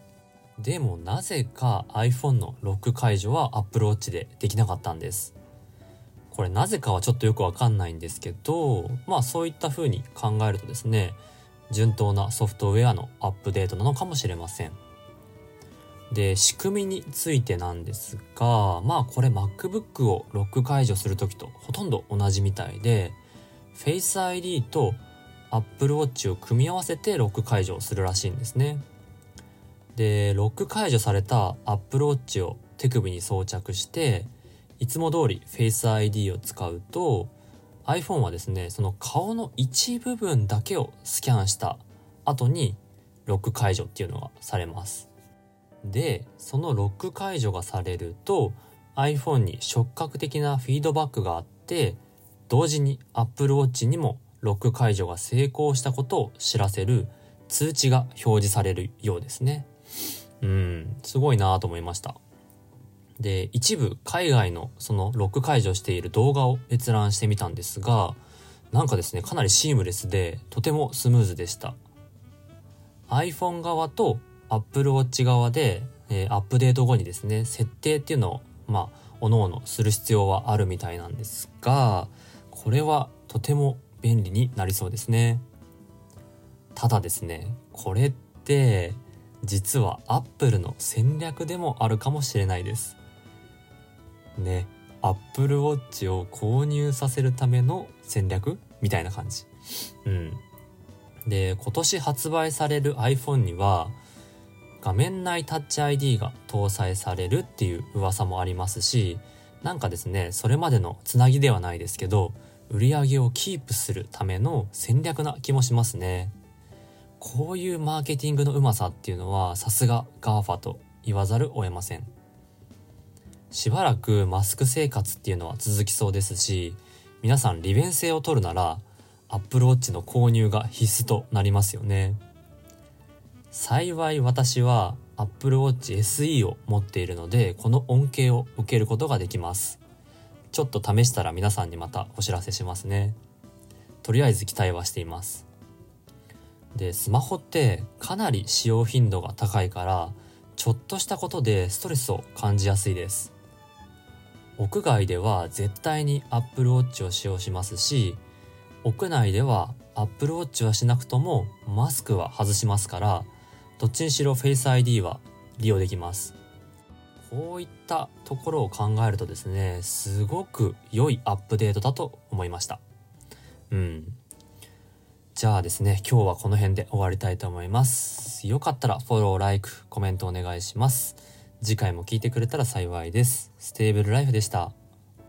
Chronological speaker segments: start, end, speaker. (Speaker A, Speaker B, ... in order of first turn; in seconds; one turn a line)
Speaker A: 0.6-5.3
Speaker A: 6.3-14.8
Speaker A: 16.1-23.2
Speaker A: 23.7-28.9
Speaker A: 29.9-37.3
Speaker A: 37.8-45.1
Speaker A: 45.8-59.7
Speaker A: 60.4-62.2
Speaker A: 63.2-68.2
Speaker A: 68.7-71.8
Speaker A: 73.1-85.4
Speaker A: 86.7-93.0
Speaker A: 94.3-99.5
Speaker A: 100.0-100.4
Speaker A: 101.2-104.0
Speaker A: 104.8-116.3
Speaker A: 117.2-122.1
Speaker A: 123.5-132.2
Speaker A: 133.5-139.8
Speaker A: 140.5-143.2
Speaker A: 144.0-145.4
Speaker A: 146.7-153.3
Speaker A: 154.6-158.2
Speaker A: 158.8-166.3
Speaker A: 167.2-172.8
Speaker A: 173.7-174.2
Speaker A: 175.3-184.7